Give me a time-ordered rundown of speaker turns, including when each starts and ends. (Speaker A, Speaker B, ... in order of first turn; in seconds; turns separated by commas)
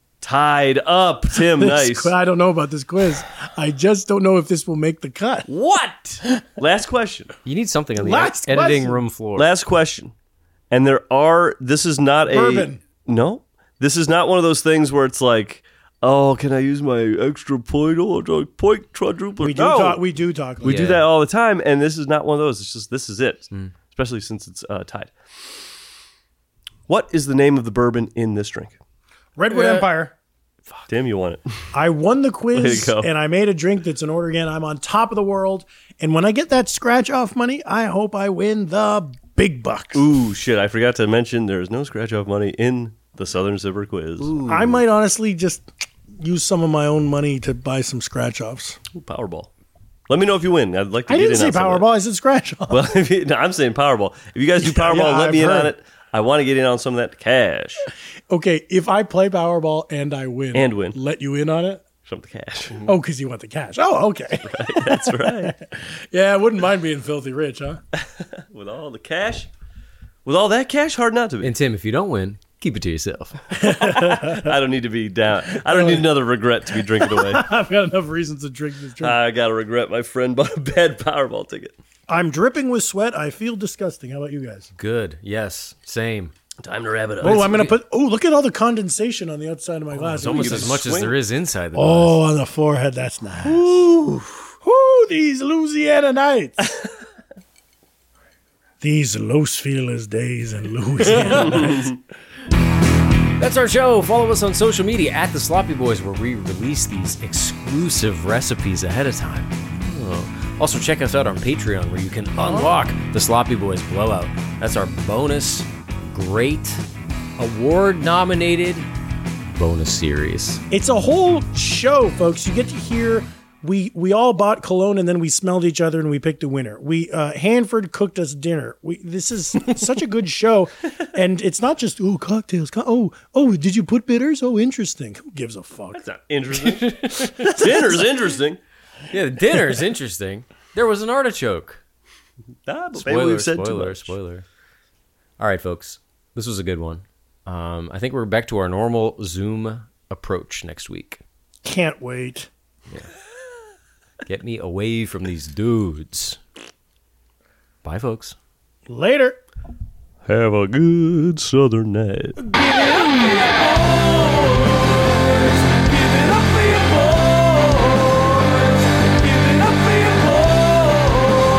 Speaker A: 0.2-2.1, Speaker B: 1.3-5.5, Speaker A: 5.5-7.3, Speaker C: 7.5-9.5, Speaker B: 8.0-9.0, Speaker A: 9.3-10.1, Speaker A: 10.7-20.0, Speaker B: 12.3-12.8, Speaker B: 19.4-20.8, Speaker A: 20.6-25.6, Speaker C: 20.6-21.0, Speaker A: 26.9-28.8, Speaker B: 29.4-30.1, Speaker C: 29.5-29.8, Speaker A: 30.9-31.7, Speaker B: 31.7-40.0, Speaker A: 32.5-33.1, Speaker A: 39.9-44.7, Speaker C: 44.2-44.8, Speaker B: 44.4-45.7, Speaker B: 46.2-48.8, Speaker A: 48.9-49.5, Speaker A: 50.1-51.8, Speaker B: 51.1-52.8, Speaker A: 52.7-57.8, Speaker B: 54.6-55.7, Speaker B: 58.3-61.8, Speaker A: 60.5-61.0, Speaker A: 62.0-62.9, Speaker B: 62.8-67.8, Speaker A: 64.4-65.5, Speaker A: 68.0-69.5, Speaker A: 70.2-71.5, Speaker C: 71.4-73.4, Speaker B: 73.5-74.5, Speaker A: 73.7-77.5, Speaker B: 75.5-76.1, Speaker B: 76.9-79.2, Speaker A: 79.0-81.7, Speaker B: 82.1-84.7, Speaker C: 84.8-86.3, Speaker A: 86.6-87.6, Speaker C: 87.2-87.7, Speaker B: 87.2-90.8, Speaker C: 90.0-92.2, Speaker A: 90.2-91.2, Speaker B: 91.7-93.7, Speaker A: 93.5-94.4, Speaker B: 94.6-96.7, Speaker B: 98.8-101.9, Speaker C: 101.1-101.6, Speaker A: 101.5-102.0, Speaker C: 103.4-116.8, Speaker C: 117.4-118.9, Speaker C: 119.5-120.6, Speaker B: 120.7-136.0, Speaker A: 136.0-138.6, Speaker C: 136.7-137.6, Speaker B: 137.3-138.0, Speaker C: 139.1-141.8, Speaker A: 142.7-144.1, Speaker C: 143.0-144.4, Speaker C: 145.4-151.2, Speaker B: 151.6-152.5, Speaker C: 154.3-156.4, Speaker C: 157.8-158.4, Speaker B: 158.9-159.4, Speaker A: 160.3-162.4, Speaker C: 162.6-164.7, Speaker C: 166.3-168.1, Speaker A: 166.4-166.9, Speaker A: 169.4-171.1, Speaker C: 169.7-170.0